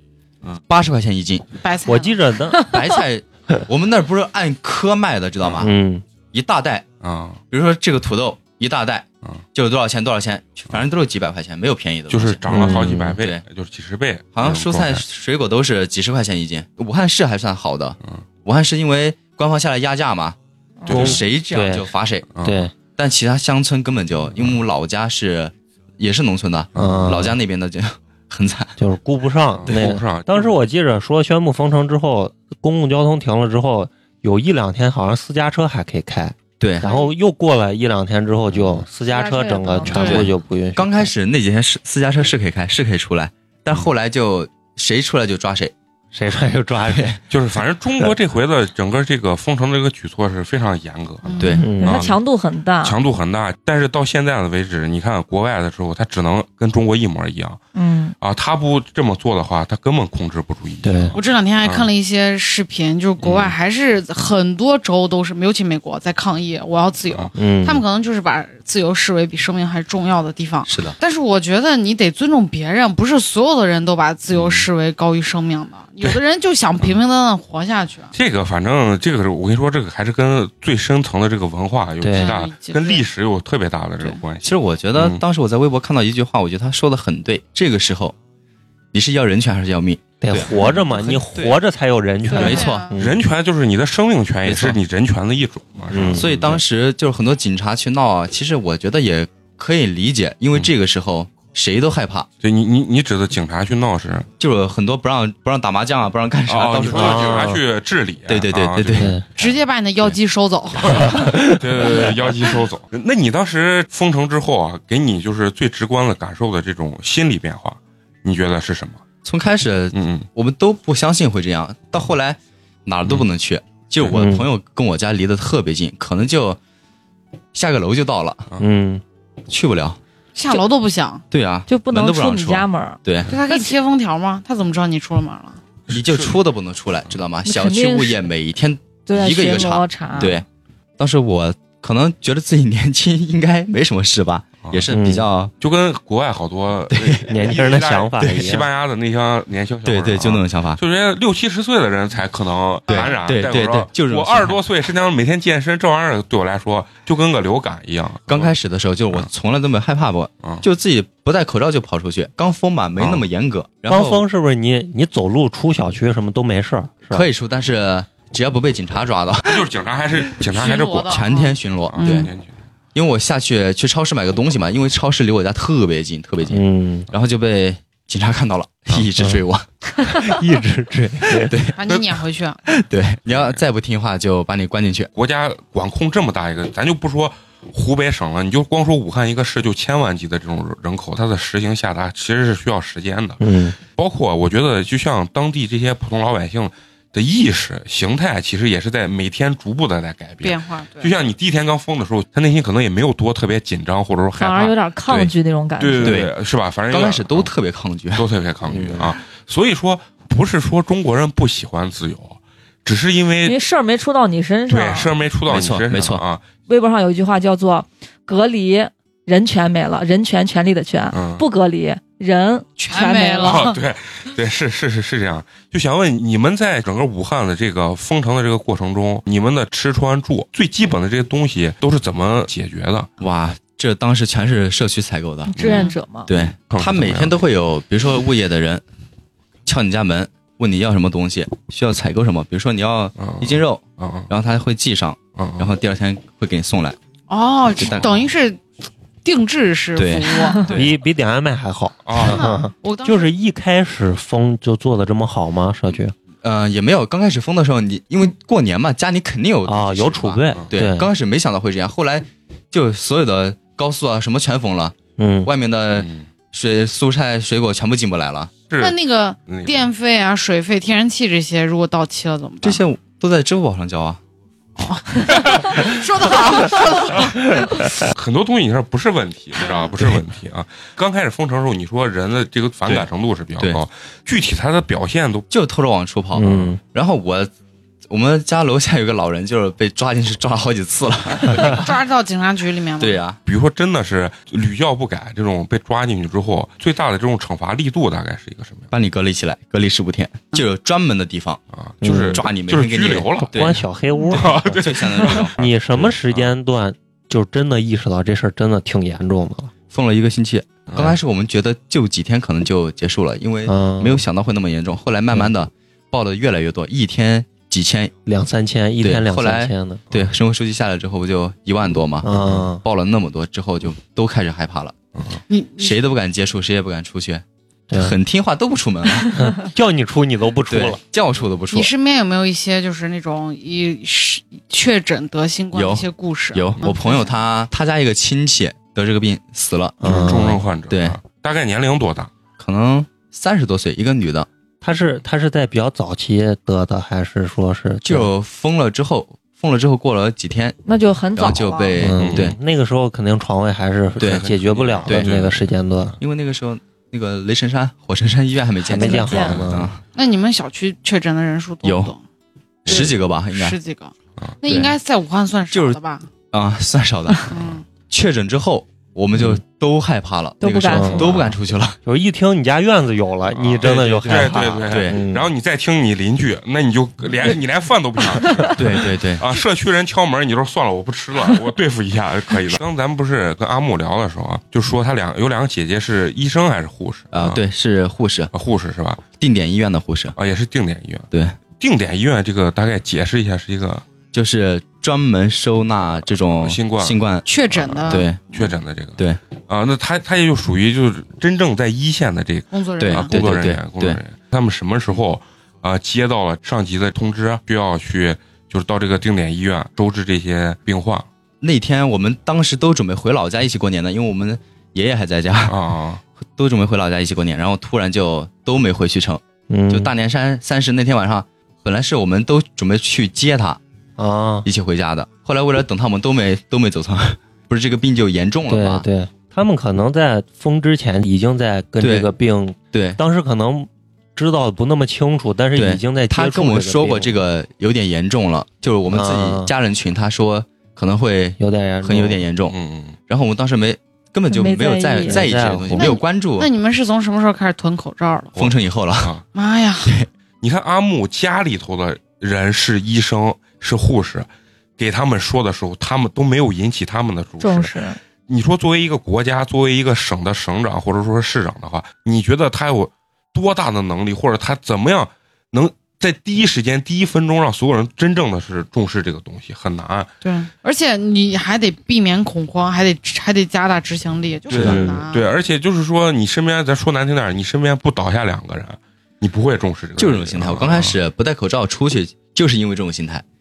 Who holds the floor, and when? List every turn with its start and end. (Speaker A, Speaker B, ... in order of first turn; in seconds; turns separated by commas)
Speaker A: 0.7-1.4, Speaker B: 1.6-2.2, Speaker C: 1.9-2.7, Speaker A: 2.7-5.7, Speaker C: 5.6-6.0, Speaker A: 6.3-6.8, Speaker D: 7.0-7.4, Speaker A: 7.5-13.4, Speaker D: 12.1-15.0, Speaker C: 12.5-13.2, Speaker A: 14.3-22.3, Speaker E: 20.8-21.2, Speaker D: 20.9-21.2, Speaker C: 20.9-22.7, Speaker D: 22.4-22.7, Speaker A: 23.0-28.7, Speaker D: 26.7-27.1, Speaker C: 26.8-27.4, Speaker C: 28.8-41.1, Speaker D: 29.6-30.6, Speaker D: 38.5-38.8, Speaker E: 39.1-40.3, Speaker B: 39.9-40.2, Speaker A: 40.0-45.7, Speaker C: 46.1-47.2, Speaker A: 46.9-47.2, Speaker D: 47.3-52.2, Speaker B: 51.2-51.7, Speaker A: 51.4-51.7, Speaker C: 51.6-52.1, Speaker E: 51.8-53.0, Speaker D: 52.8-57.6, Speaker E: 57.8-58.1, Speaker D: 58.2-61.9, Speaker C: 60.8-61.2, Speaker B: 61.1-78.1, Speaker D: 63.2-63.5, Speaker C: 67.3-67.8, Speaker A: 70.7-71.0, Speaker D: 74.3-74.7, Speaker D: 78.1-85.2, Speaker C: 82.0-82.4, Speaker B: 82.2-83.0, Speaker A: 84.4-88.2, Speaker A: 88.9-91.6, Speaker C: 90.2-93.2, Speaker B: 92.3-93.0, Speaker A: 92.3-92.9, Speaker D: 93.0-96.6, Speaker A: 94.5-94.8, Speaker C: 95.9-96.3, Speaker A: 96.1-102.3, Speaker D: 102.4-104.3, Speaker A: 104.4-107.5, Speaker D: 106.5-110.2, Speaker C: 106.9-107.6, Speaker A: 108.3-109.2, Speaker C: 109.0-109.2, Speaker B: 109.4-111.3, Speaker D: 110.8-119.0, Speaker C: 111.0-111.6, Speaker A: 119.2-126.6, Speaker D: 119.9-120.3, Speaker C: 124.1-124.5, Speaker A: 127.5-128.5, Speaker C: 128.6-129.0, Speaker A: 129.5-130.0, Speaker B: 130.3-131.2, Speaker A: 131.3-133.3, Speaker E: 131.7-133.8, Speaker B: 133.3-135.6, Speaker A: 135.9-140.4, Speaker D: 135.9-136.4, Speaker E: 137.4-138.3, Speaker E: 139.1-140.4, Speaker A: 141.0-145.5, Speaker C: 144.9-145.3, Speaker D: 145.6-158.5, Speaker A: 146.9-147.2, Speaker C: 147.3-148.7, Speaker A: 148.2-148.5, Speaker A: 149.8-150.8, Speaker A: 152.9-154.6, Speaker A: 158.3-164.2, Speaker D: 163.0-163.3, Speaker C: 163.9-167.3, Speaker A: 167.1-169.7, Speaker D: 169.4-171.3, Speaker B: 170.5-172.3, Speaker A: 171.1-172.3, Speaker D: 171.8-172.5, Speaker A: 172.9-179.7, Speaker C: 176.5-177.1, Speaker C: 180.1-181.7, Speaker A: 181.4-181.8, Speaker B: 181.8-182.6, Speaker A: 182.7-185.1, Speaker D: 183.3-183.6, Speaker D: 185.2-204.8, Speaker C: 193.4-193.8, Speaker B: 200.4-201.1, Speaker E: 204.4-206.2, Speaker A: 205.1-205.3, Speaker D: 205.8-207.5, Speaker A: 206.0-206.3, Speaker A: 206.9-208.3, Speaker D: 208.1-213.6, Speaker C: 208.7-209.2, Speaker E: 213.4-215.1, Speaker D: 214.7-216.4, Speaker A: 215.5-216.2, Speaker E: 216.7-223.7, Speaker D: 221.1-221.4, Speaker B: 222.8-223.8, Speaker D: 223.4-233.1, Speaker A: 233.2-235.5, Speaker E: 235.5-236.3, Speaker D: 235.6-237.4, Speaker B: 235.6-236.0, Speaker A: 236.3-238.8, Speaker A: 239.7-247.0, Speaker D: 243.2-244.3, Speaker D: 245.4-245.7, Speaker B: 247.3-248.6, Speaker A: 247.8-248.2, Speaker B: 249.2-250.7, Speaker A: 249.9-250.9, Speaker C: 250.7-256.1, Speaker D: 252.1-252.5, Speaker B: 252.2-253.3, Speaker A: 256.4-268.5, Speaker C: 259.7-261.1, Speaker C: 265.2-265.5, Speaker D: 265.9-266.3, Speaker D: 268.7-269.9, Speaker B: 268.8-272.8, Speaker A: 272.6-274.2, Speaker B: 274.8-278.0, Speaker D: 278.0-285.5, Speaker B: 279.6-279.9, Speaker A: 285.5-287.5, Speaker C: 286.4-286.8, Speaker A: 288.1-291.9, Speaker B: 291.6-293.2, Speaker A: 293.0-293.4, Speaker D: 293.5-298.9, Speaker A: 298.9-301.6, Speaker D: 301.7-303.8, Speaker C: 302.0-302.4, Speaker A: 302.3-305.6, Speaker C: 303.4-309.7, Speaker D: 304.3-306.5, Speaker A: 309.9-318.1, Speaker D: 310.9-311.2, Speaker C: 313.7-314.2, Speaker C: 318.3-320.1, Speaker A: 319.0-325.0, Speaker C: 322.2-322.8, Speaker D: 322.3-322.7, Speaker B: 325.5-326.0, Speaker A: 325.8-329.4, Speaker C: 327.9-328.2, Speaker C: 329.4-331.0, Speaker A: 330.7-331.9, Speaker B: 331.7-337.4, Speaker A: 335.7-341.2, Speaker C: 340.0-340.6, Speaker D: 340.0-342.3, Speaker A: 342.6-344.5, Speaker C: 344.8-348.3, Speaker A: 348.0-350.8, Speaker E: 350.9-352.0, Speaker A: 351.3-352.6, Speaker C: 352.0-356.2, Speaker D: 352.2-352.6, Speaker D: 354.2-355.6, Speaker A: 354.2-354.5, Speaker A: 356.2-360.0, Speaker C: 358.8-359.9, Speaker B: 359.2-359.5, Speaker D: 359.4-359.7, Speaker B: 360.1-362.2, Speaker A: 361.8-362.1, Speaker A: 362.9-363.8, Speaker B: 362.9-366.3, Speaker A: 364.6-364.9, Speaker A: 365.7-366.0, Speaker A: 366.5-367.5, Speaker B: 367.5-367.9, Speaker A: 368.1-372.0, Speaker E: 370.6-371.5, Speaker C: 370.9-371.3, Speaker C: 372.0-375.5, Speaker D: 373.5-387.6, Speaker A: 373.8-375.2, Speaker E: 378.4-378.7, Speaker A: 378.7-379.4, Speaker A: 387.3-388.5, Speaker D: 388.5-389.2, Speaker A: 389.4-390.4, Speaker D: 390.4-394.1, Speaker A: 391.3-391.6, Speaker A: 394.3-397.5, Speaker D: 396.6-397.2, Speaker B: 397.5-398.3, Speaker D: 397.7-411.3, Speaker A: 398.1-398.4, Speaker B: 402.7-403.4, Speaker A: 403.0-404.2, Speaker A: 411.6-415.8, Speaker D: 415.7-416.2, Speaker A: 416.6-423.8, Speaker C: 419.7-420.1, Speaker C: 424.2-424.7, Speaker A: 424.6-429.1, Speaker C: 428.7-437.4, Speaker A: 432.0-432.3, Speaker A: 432.9-433.2, Speaker A: 435.8-442.8, Speaker C: 439.1-439.7, Speaker C: 441.6-442.4, Speaker D: 442.7-443.2, Speaker A: 443.3-446.7, Speaker E: 444.5-445.4, Speaker C: 445.3-446.1, Speaker B: 445.9-448.6, Speaker D: 448.6-449.4, Speaker A: 448.6-449.3, Speaker B: 449.6-450.2, Speaker D: 450.6-457.9, Speaker E: 457.6-458.2, Speaker D: 458.5-470.3, Speaker B: 470.4-475.5, Speaker A: 474.7-475.1, Speaker D: 474.7-481.1, Speaker C: 474.8-475.2, Speaker A: 480.2-483.4